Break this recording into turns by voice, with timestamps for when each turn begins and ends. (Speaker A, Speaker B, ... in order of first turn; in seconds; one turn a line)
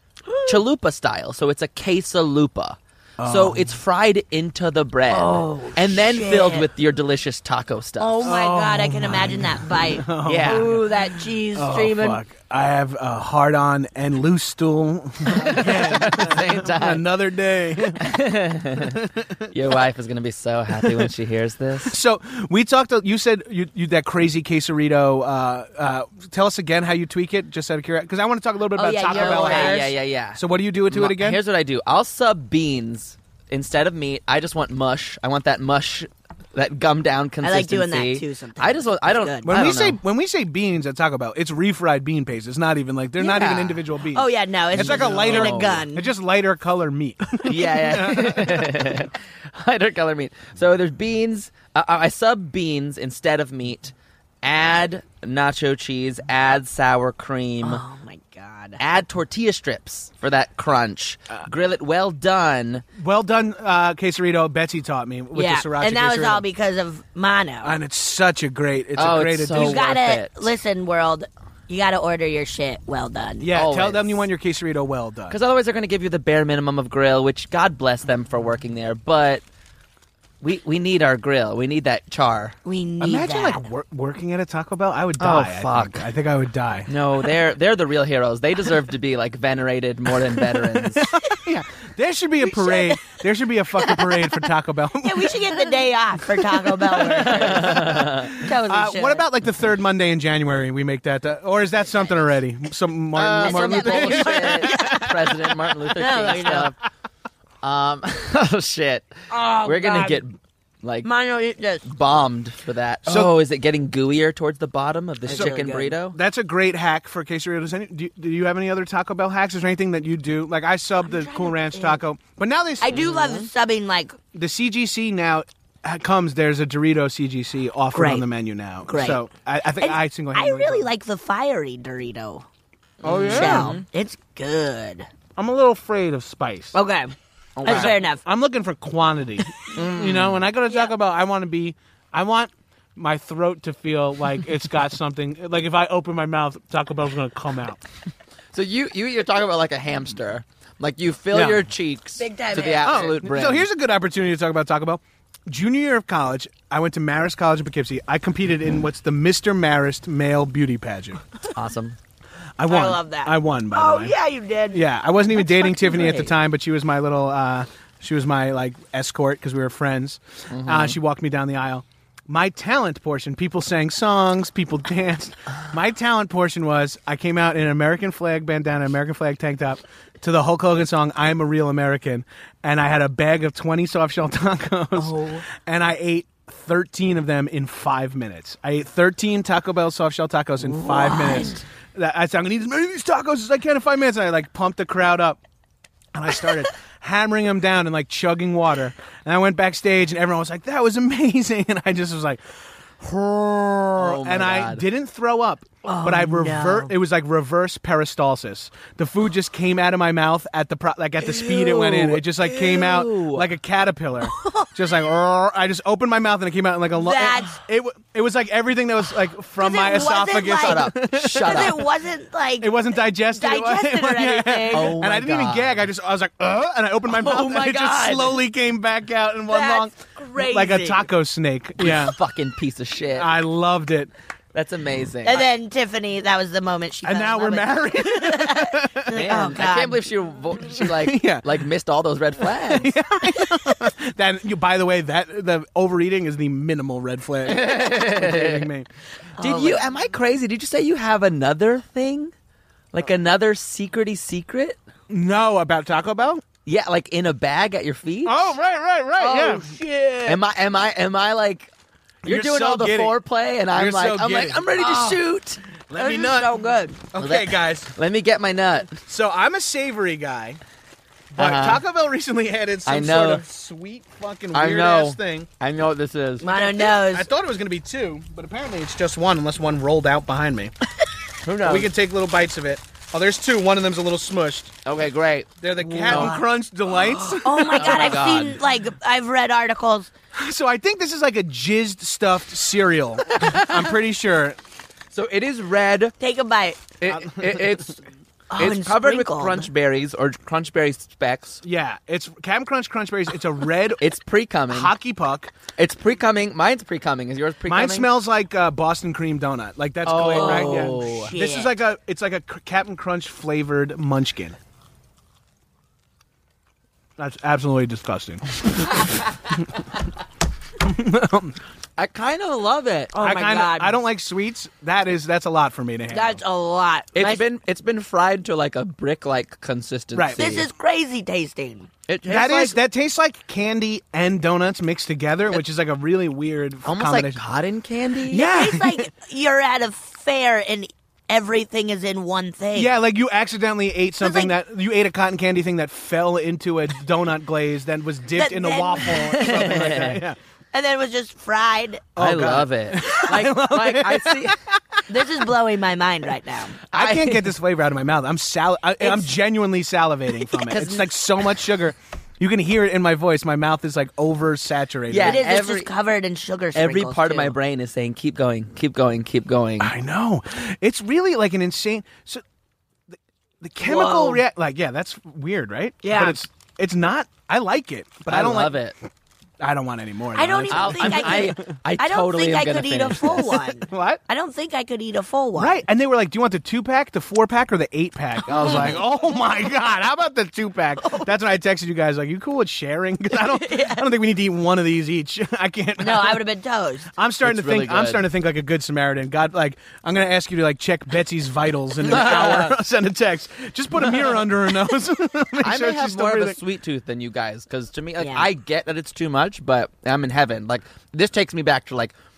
Speaker A: 0.3-0.6
Speaker B: 0.5-8.3
Speaker C: 3.2-3.7
Speaker A: 5.1-6.7
Speaker A: 8.0-12.2
Speaker C: 8.2-10.9
Speaker B: 10.2-10.7
Speaker C: 11.5-18.1
Speaker B: 15.3-17.1
Speaker B: 18.0-19.0
Speaker C: 18.8-19.4
Speaker B: 19.5-22.0
Speaker C: 21.9-31.4
Speaker A: 28.7-29.9
Speaker B: 29.1-40.0
Speaker A: 37.4-39.7
Speaker C: 39.4-48.9
Speaker B: 43.2-43.8
Speaker A: 44.1-46.1
Speaker B: 44.7-45.8
Speaker B: 47.4-57.8
Speaker A: 57.6-58.8
Speaker B: 58.8-62.8
Speaker C: 63.0-66.4
Speaker A: 65.3-67.7
Speaker C: 67.6-69.9
Speaker B: 69.0-70.5
Speaker A: 69.5-73.5
Speaker C: 73.4-75.4
Speaker B: 73.5-74.2
Speaker B: 75.3-79.4
Speaker B: 80.4-82.5
Speaker A: 82.6-83.6
Speaker C: 83.0-86.9
Speaker B: 85.2-86.0
Speaker B: 86.9-91.1
Speaker C: 90.8-95.5
Speaker A: 92.4-93.0
Speaker A: 93.8-94.4
Speaker A: 95.0-99.2
Speaker C: 96.4-105.1
Speaker B: 97.2-98.4
Speaker B: 103.1-106.8
Speaker A: 103.3-105.3
Speaker A: 105.9-106.7
Speaker B: 107.6-111.1
Speaker A: 109.3-110.2
Speaker A: 111.0-111.9
Speaker B: 111.8-116.2
Speaker C: 113.0-113.3
Speaker A: 115.2-116.0
Speaker C: 115.3-115.5
Speaker C: 116.1-123.1
Speaker A: 121.0-122.0
Speaker A: 122.8-124.2
Speaker B: 122.9-123.5
Speaker C: 124.3-130.9
Speaker A: 127.9-128.2
Speaker A: 128.8-129.2
Speaker A: 129.8-132.4
Speaker B: 133.0-133.8
Speaker C: 133.0-133.7
Speaker A: 133.2-135.1
Speaker C: 135.4-136.8
Speaker A: 136.7-137.1
Speaker B: 137.6-138.0
Speaker A: 137.6-138.2
Speaker C: 137.6-147.8
Speaker B: 139.7-140.4
Speaker B: 148.5-153.7
Speaker C: 151.3-151.6
Speaker A: 152.2-153.1
Speaker C: 152.8-161.2
Speaker B: 161.5-162.0
Speaker C: 162.6-164.1
Speaker A: 162.7-164.8
Speaker C: 164.7-195.4
Speaker A: 165.6-166.2
Speaker B: 165.9-166.2
Speaker B: 170.5-171.0
Speaker A: 185.0-185.4
Speaker A: 190.6-191.6
Speaker C: 196.1-202.4
Speaker C: 203.0-221.8
Speaker B: 204.0-204.8
Speaker A: 205.8-206.9
Speaker B: 211.5-213.5
Speaker A: 214.3-214.7
Speaker A: 216.9-217.6
Speaker A: 219.6-225.0
Speaker B: 220.4-221.8
Speaker C: 222.6-232.2
Speaker B: 224.7-225.8
Speaker B: 227.1-228.4
Speaker A: 229.5-231.1
Speaker B: 231.8-233.3
Speaker C: 233.2-234.1
Speaker B: 234.5-235.4
Speaker A: 235.2-240.1
Speaker C: 237.0-239.2
Speaker B: 239.1-242.9
Speaker C: 240.7-241.4
Speaker C: 242.6-248.9
Speaker B: 247.4-248.7
Speaker A: 249.4-249.8
Speaker B: 249.4-252.3
Speaker B: 252.9-254.8
Speaker C: 255.1-256.4
Speaker B: 256.6-258.5
Speaker C: 258.2-259.7
Speaker A: 259.2-260.4
Speaker B: 260.2-261.7
Speaker C: 262.2-263.2
Speaker B: 262.2-265.6
Speaker C: 263.7-264.8
Speaker A: 264.8-265.2
Speaker C: 265.9-266.6
Speaker A: 265.9-267.0
Speaker C: 267.1-267.9
Speaker B: 267.2-269.0
Speaker C: 269.0-270.6
Speaker C: 271.3-275.5
Speaker B: 271.4-271.8
Speaker B: 272.9-273.4
Speaker B: 274.5-276.5
Speaker A: 276.4-277.3
Speaker C: 276.5-280.7
Speaker B: 281.4-281.9
Speaker C: 281.6-284.7
Speaker B: 284.8-285.5
Speaker C: 285.6-288.1
Speaker A: 285.8-286.5
Speaker B: 286.1-286.4
Speaker A: 287.0-290.1
Speaker B: 287.7-288.6
Speaker C: 290.3-294.6
Speaker B: 293.3-293.9
Speaker B: 295.1-296.1
Speaker A: 296.2-296.9
Speaker B: 297.0-298.0
Speaker C: 297.1-297.6
Speaker A: 298.5-299.7
Speaker B: 298.6-301.6
Speaker C: 301.6-304.0
Speaker B: 304.0-304.9
Speaker C: 304.7-305.5
Speaker B: 305.8-308.1
Speaker C: 307.7-314.6
Speaker B: 310.0-311.3
Speaker A: 310.3-311.7
Speaker C: 317.2-318.6
Speaker C: 320.8-321.6
Speaker B: 322.0-323.1
Speaker A: 323.1-324.0
Speaker C: 323.2-326.4
Speaker A: 326.1-327.4
Speaker B: 327.1-330.7
Speaker C: 330.1-330.4
Speaker A: 330.4-331.9
Speaker B: 332.1-332.8
Speaker C: 332.3-337.4
Speaker B: 336.9-338.5
Speaker A: 338.3-342.9
Speaker C: 338.3-339.1
Speaker C: 342.7-350.4
Speaker A: 344.2-344.5
Speaker A: 348.4-350.0
Speaker B: 349.4-350.2
Speaker A: 350.7-352.1
Speaker C: 352.1-355.2
Speaker B: 352.2-354.6
Speaker A: 355.1-356.8
Speaker C: 356.9-365.4
Speaker B: 356.9-357.5
Speaker A: 359.0-359.3
Speaker B: 360.6-361.0
Speaker B: 365.1-365.9
Speaker A: 365.2-367.5
Speaker B: 366.7-369.9
Speaker C: 369.8-372.4
Speaker C: 373.1-378.8
Speaker A: 373.8-374.4
Speaker A: 376.0-376.4
Speaker B: 378.3-378.9
Speaker C: 379.6-381.6
Speaker A: 380.3-385.8
Speaker B: 380.7-383.6
Speaker C: 383.9-384.2
Speaker C: 385.6-396.4
Speaker B: 388.5-389.0
Speaker A: 393.3-394.1
Speaker A: 396.0-397.1
Speaker C: 397.1-406.6
Speaker B: 397.4-398.3
Speaker B: 402.0-402.8
Speaker B: 405.6-412.1
Speaker A: 408.2-408.5